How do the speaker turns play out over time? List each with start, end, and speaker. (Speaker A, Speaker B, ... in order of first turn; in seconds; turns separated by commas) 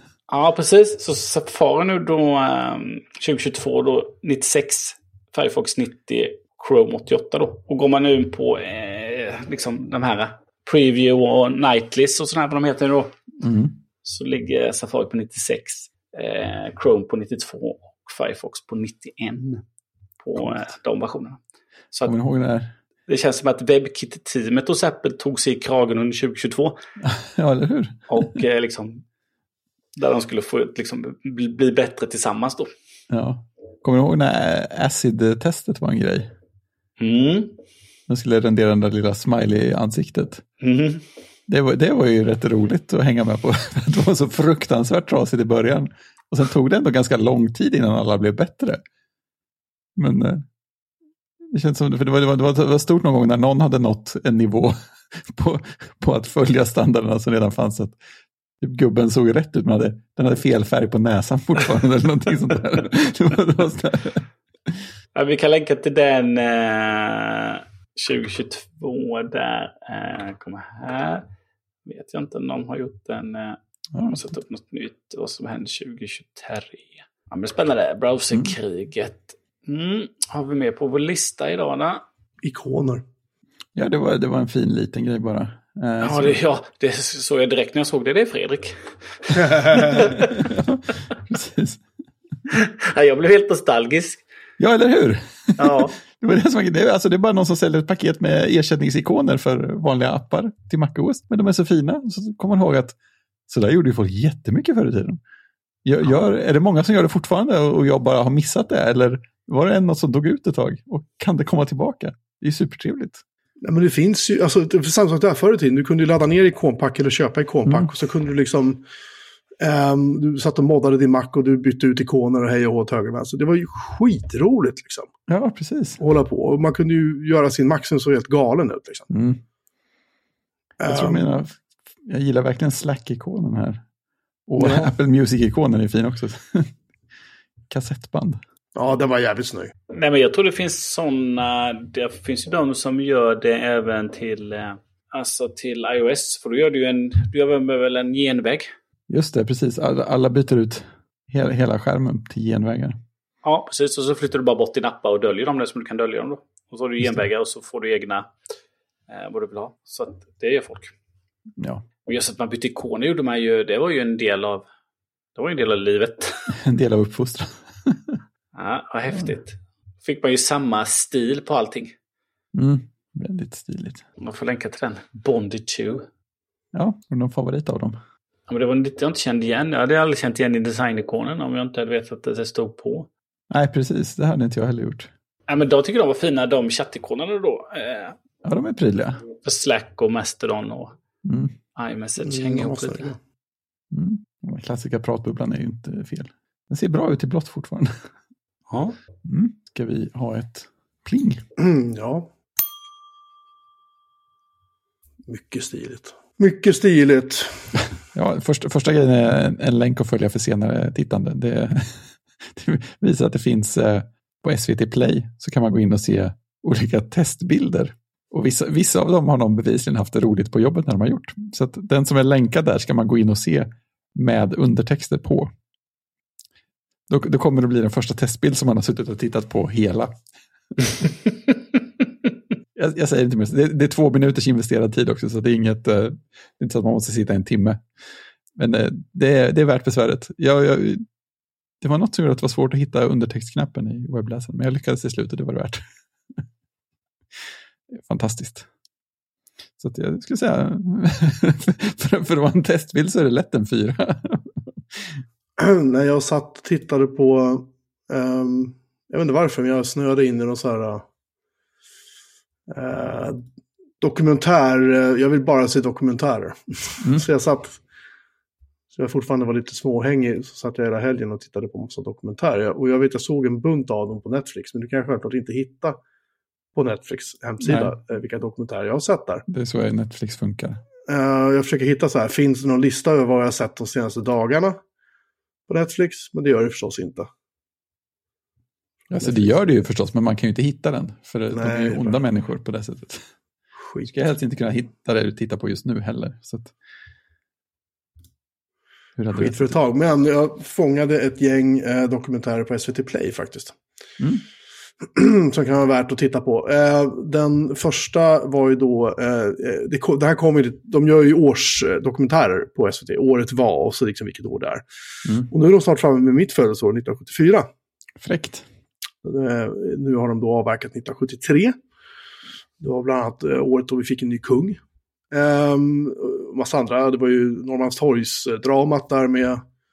Speaker A: 0.3-13.2, Speaker B: 13.4-13.8, Speaker A: 14.0-19.6, Speaker A: 20.2-21.4, Speaker B: 22.1-22.7, Speaker A: 23.1-26.8, Speaker B: 27.0-28.4, Speaker A: 28.1-29.0, Speaker A: 30.0-32.7, Speaker B: 33.1-36.3, Speaker A: 37.0-37.6, Speaker B: 38.1-40.4, Speaker A: 40.6-41.0, Speaker B: 41.5-48.8, Speaker B: 50.0-50.5, Speaker B: 51.5-58.0, Speaker B: 58.6-64.8, Speaker A: 65.2-71.3, Speaker A: 71.9-82.0, Speaker B: 73.9-74.2, Speaker C: 82.4-83.0, Speaker B: 83.8-86.4, Speaker A: 86.0-90.4, Speaker B: 89.7-91.8, Speaker A: 92.5-94.2, Speaker B: 94.6-103.0, Speaker A: 95.6-96.0, Speaker B: 103.5-105.2, Speaker B: 105.8-113.2, Speaker C: 113.6-118.8, Speaker B: 117.7-117.9, Speaker C: 119.6-125.1, Speaker B: 125.3-126.0, Speaker C: 126.0-129.1, Speaker B: 129.1-129.4, Speaker C: 130.8-131.2, Speaker B: 130.9-133.8, Speaker B: 134.5-136.8, Speaker C: 134.6-134.9, Speaker B: 137.7-138.4, Speaker C: 138.8-139.7, Speaker A: 139.9-148.7, Speaker B: 149.1-153.0, Speaker A: 153.4-158.3, Speaker A: 159.1-160.9, Speaker B: 161.6-161.8, Speaker A: 162.1-164.7, Speaker A: 165.4-166.5, Speaker B: 166.5-168.2, Speaker A: 168.5-171.9, Speaker B: 172.5-174.0, Speaker A: 174.2-176.1, Speaker B: 176.7-178.0, Speaker A: 178.5-183.1, Speaker B: 183.5-185.1, Speaker A: 185.5-188.2, Speaker B: 188.4-189.2, Speaker A: 189.4-191.0, Speaker B: 191.2-191.5, Speaker A: 191.8-193.1, Speaker C: 192.2-193.2, Speaker B: 193.9-198.1, Speaker A: 198.7-198.9, Speaker B: 199.2-201.4, Speaker C: 201.6-202.3, Speaker C: 205.3-207.9, Speaker B: 208.1-225.5, Speaker B: 227.1-230.2, Speaker B: 232.8-237.8, Speaker B: 238.6-241.1, Speaker B: 241.8-245.8, Speaker B: 247.9-248.7, Speaker B: 249.8-255.2, Speaker C: 255.6-261.1, Speaker C: 262.7-263.4, Speaker C: 264.0-267.8, Speaker C: 268.9-276.0, Speaker C: 276.7-279.4, Speaker B: 277.6-277.9, Speaker B: 279.5-280.8, Speaker C: 281.1-284.8, Speaker C: 285.7-287.3, Speaker C: 289.1-289.5, Speaker B: 289.1-293.3, Speaker C: 291.5-292.2, Speaker C: 293.8-294.1, Speaker B: 294.1-296.7, Speaker B: 299.2-299.8, Speaker C: 299.3-303.8, Speaker C: 305.0-314.8, Speaker C: 315.5-317.7, Speaker B: 318.2-318.7, Speaker C: 319.2-321.8, Speaker C: 322.8-324.8, Speaker C: 325.3-329.6